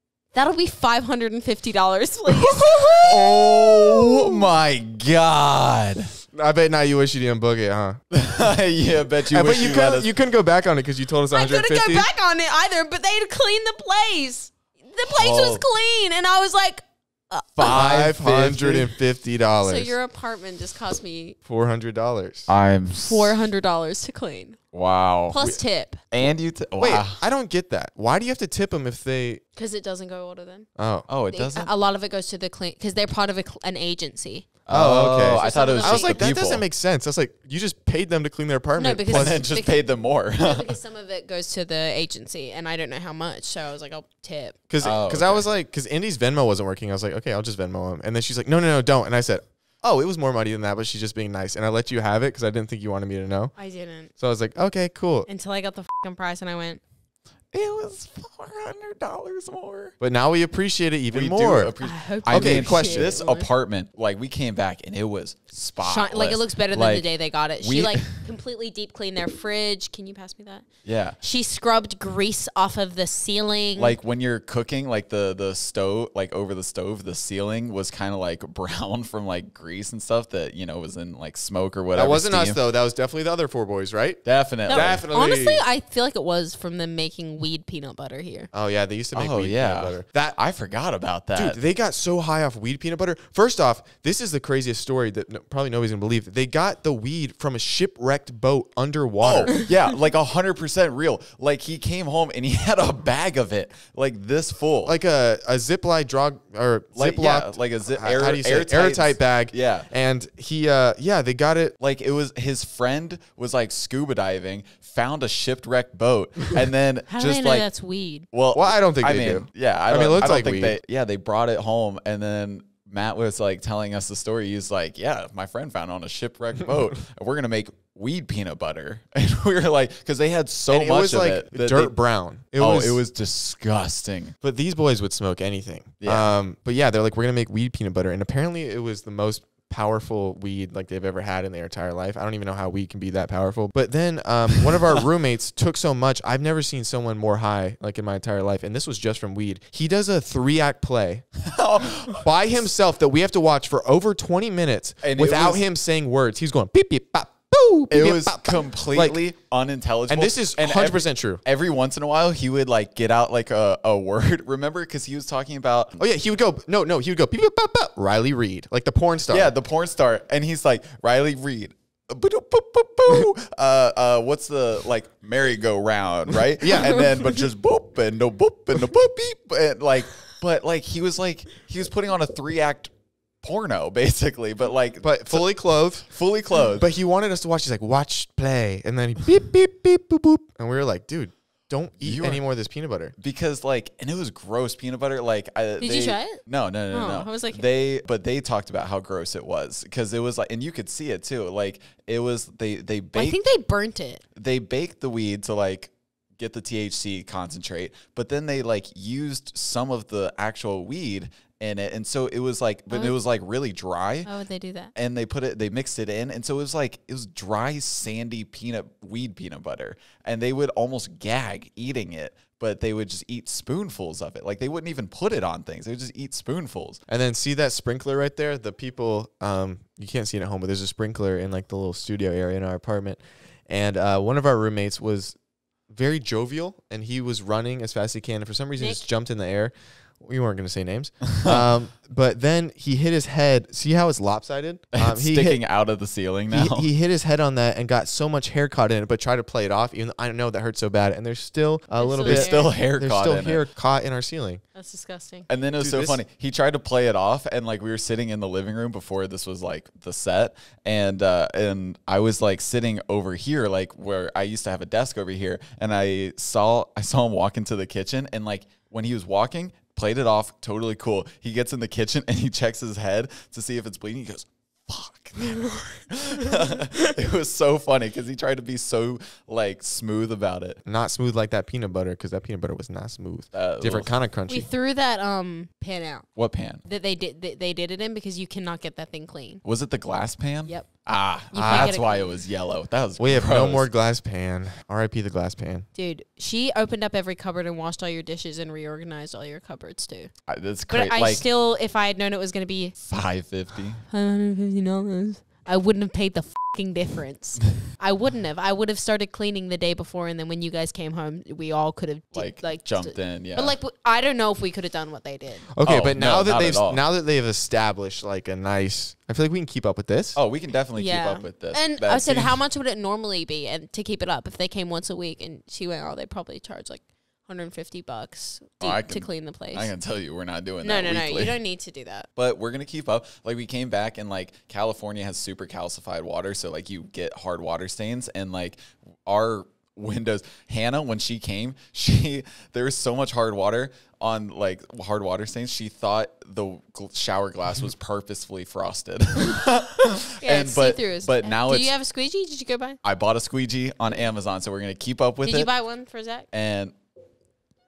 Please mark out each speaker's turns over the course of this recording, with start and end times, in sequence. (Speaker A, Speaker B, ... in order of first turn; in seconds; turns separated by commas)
Speaker A: 0.3-4.5, Speaker B: 2.5-6.1, Speaker C: 6.3-8.0, Speaker B: 8.1-10.1, Speaker C: 9.3-12.1, Speaker A: 11.3-17.8, Speaker B: 15.1-15.6, Speaker B: 17.6-18.9, Speaker C: 17.6-19.9, Speaker A: 19.6-21.4, Speaker C: 21.4-22.5, Speaker B: 22.5-23.4, Speaker A: 23.0-24.6, Speaker B: 24.7-25.4, Speaker A: 25.3-26.0, Speaker B: 26.1-27.2, Speaker C: 26.8-29.4, Speaker A: 29.6-30.7, Speaker C: 30.8-31.1, Speaker B: 31.1-31.7, Speaker A: 31.3-34.5, Speaker B: 34.7-36.6, Speaker C: 34.7-39.4, Speaker A: 35.4-36.3, Speaker A: 38.8-39.8, Speaker B: 39.1-40.7, Speaker A: 40.4-44.6, Speaker C: 44.7-53.5, Speaker B: 44.8-45.5, Speaker A: 53.6-54.1, Speaker C: 54.2-55.3, Speaker A: 55.3-56.8, Speaker B: 57.5-59.9, Speaker C: 60.0-61.7, Speaker B: 61.1-67.0, Speaker A: 61.8-63.5, Speaker C: 62.3-63.1, Speaker A: 65.8-70.7, Speaker B: 67.6-68.1, Speaker B: 70.8-71.2, Speaker A: 71.2-74.0, Speaker B: 73.8-82.6, Speaker C: 81.9-85.6, Speaker B: 84.2-85.0, Speaker A: 84.7-88.5, Speaker C: 88.5-90.4, Speaker B: 89.1-91.6, Speaker C: 91.3-99.6, Speaker B: 99.2-105.0, Speaker C: 104.8-111.8, Speaker B: 106.9-109.9, Speaker B: 111.8-117.7, Speaker A: 117.1-118.3, Speaker B: 118.3-131.9, Speaker C: 118.5-120.8, Speaker C: 130.7-133.0, Speaker B: 132.6-134.3, Speaker C: 134.4-151.2, Speaker B: 136.0-136.3, Speaker B: 151.4-152.2, Speaker C: 152.1-159.2, Speaker B: 155.0-155.6, Speaker B: 157.9-166.0, Speaker C: 160.1-161.4, Speaker C: 166.0-169.5, Speaker B: 169.3-182.9, Speaker C: 176.3-177.1, Speaker B: 183.4-185.5, Speaker C: 185.0-186.1, Speaker B: 186.1-186.8, Speaker C: 186.8-193.1, Speaker B: 192.0-192.4, Speaker B: 193.2-203.4, Speaker A: 195.8-197.6, Speaker A: 203.2-204.2, Speaker B: 204.3-214.3, Speaker A: 214.2-214.9, Speaker B: 214.9-227.0, Speaker C: 227.1-235.3, Speaker C: 235.9-245.6, Speaker B: 244.9-246.9, Speaker C: 246.5-254.6, Speaker A: 252.0-252.7, Speaker B: 252.2-253.6, Speaker A: 254.7-255.5, Speaker B: 255.5-280.8, Speaker C: 255.8-256.2, Speaker C: 280.8-284.7, Speaker B: 283.5-284.1, Speaker A: 284.5-286.3, Speaker B: 286.4-286.8, Speaker A: 286.8-289.6, Speaker B: 289.6-293.9, Speaker A: 291.5-292.4, Speaker C: 291.6-291.9, Speaker C: 293.2-295.9, Speaker A: 295.9-300.3, Speaker B: 300.5-301.4, Speaker A: 300.9-302.9, Speaker B: 303.0-304.0, Speaker A: 304.1-315.7, Speaker B: 312.3-313.7, Speaker C: 315.7-320.4, Speaker B: 315.8-317.0, Speaker B: 320.3-322.6, Speaker A: 320.9-329.9, Speaker B: 328.8-331.6, Speaker A: 330.8-332.3, Speaker B: 332.4-351.9, Speaker A: 350.4-353.0, Speaker B: 353.0-355.7, Speaker A: 355.4-356.5, Speaker B: 356.5-356.9